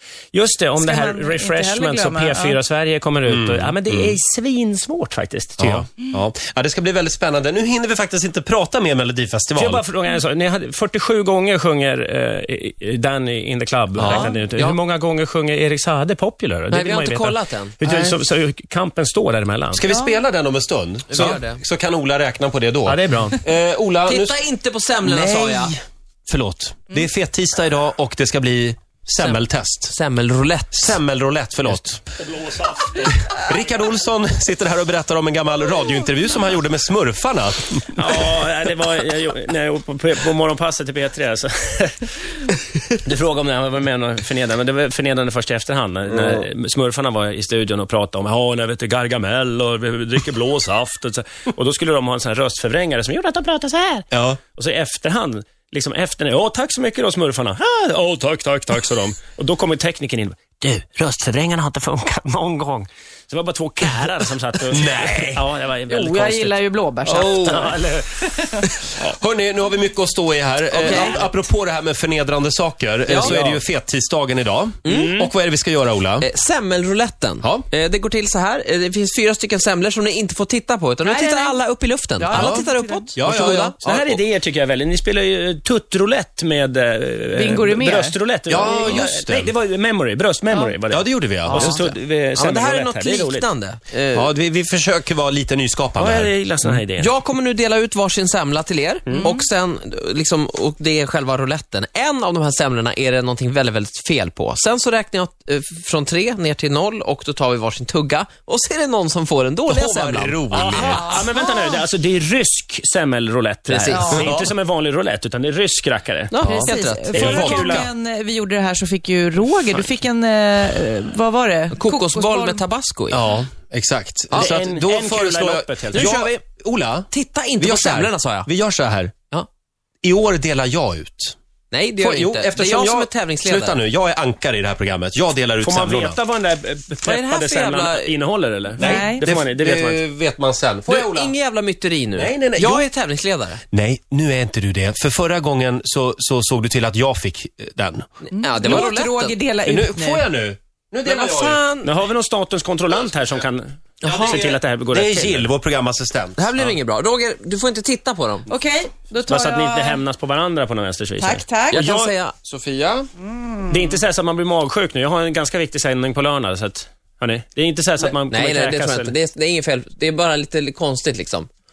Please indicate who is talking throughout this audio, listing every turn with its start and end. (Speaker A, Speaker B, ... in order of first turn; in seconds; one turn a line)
Speaker A: 0.3-5.9
Speaker B: 0.8-2.6
Speaker C: 3.2-4.2
Speaker C: 5.6-9.8
Speaker A: 9.5-19.8
Speaker C: 14.0-14.3
Speaker D: 14.0-14.8
Speaker D: 16.7-18.1
Speaker C: 19.7-24.4
Speaker B: 19.9-20.1
Speaker D: 21.1-21.6
Speaker A: 22.8-23.4
Speaker D: 24.1-25.8
Speaker C: 25.0-25.8
Speaker C: 26.3-29.9
Speaker D: 29.2-31.0
Speaker C: 30.7-32.0
Speaker A: 32.2-33.5
Speaker C: 33.3-38.1
Speaker A: 37.9-66.6
Speaker C: 54.1-54.4
Speaker C: 64.7-65.4
Speaker B: 65.9-68.6
Speaker D: 67.0-67.7
Speaker A: 67.1-68.4
Speaker C: 69.0-76.3
Speaker D: 70.7-71.3
Speaker D: 73.0-73.4
Speaker A: 73.2-73.6
Speaker D: 74.8-75.2
Speaker A: 74.8-75.3
Speaker D: 76.2-84.2
Speaker B: 81.0-81.6
Speaker B: 82.2-83.1
Speaker C: 82.3-82.6
Speaker C: 83.2-83.7
Speaker A: 83.8-93.5
Speaker B: 87.3-89.0
Speaker C: 88.5-89.5
Speaker C: 90.9-91.8
Speaker D: 91.5-94.3
Speaker C: 94.1-96.3
Speaker A: 96.0-97.1
Speaker D: 97.0-110.4
Speaker B: 99.1-99.4
Speaker C: 109.7-111.2
Speaker A: 110.5-117.9
Speaker B: 110.8-111.8
Speaker D: 113.7-114.3
Speaker B: 113.9-114.3
Speaker C: 114.1-114.5
Speaker D: 116.3-117.3
Speaker B: 116.4-122.6
Speaker C: 117.1-117.9
Speaker D: 121.7-123.2
Speaker C: 123.1-129.1
Speaker A: 124.3-126.2
Speaker D: 125.9-126.4
Speaker D: 127.1-128.5
Speaker C: 130.0-131.3
Speaker D: 131.7-133.8
Speaker C: 132.0-136.2
Speaker A: 135.6-140.0
Speaker D: 137.0-138.2
Speaker C: 138.8-141.3
Speaker B: 138.8-139.2
Speaker D: 140.8-143.6
Speaker C: 142.1-142.9
Speaker C: 143.7-148.0
Speaker B: 148.3-150.2
Speaker D: 148.3-149.4
Speaker C: 149.7-151.6
Speaker D: 151.0-151.9
Speaker A: 151.8-155.5
Speaker D: 154.0-154.6
Speaker C: 154.1-156.4
Speaker D: 156.4-158.5
Speaker B: 158.5-160.0
Speaker A: 159.3-162.1
Speaker B: 161.2-161.8
Speaker D: 161.7-162.3
Speaker C: 162.4-163.1
Speaker B: 163.3-163.7
Speaker A: 163.7-169.1
Speaker D: 168.0-171.5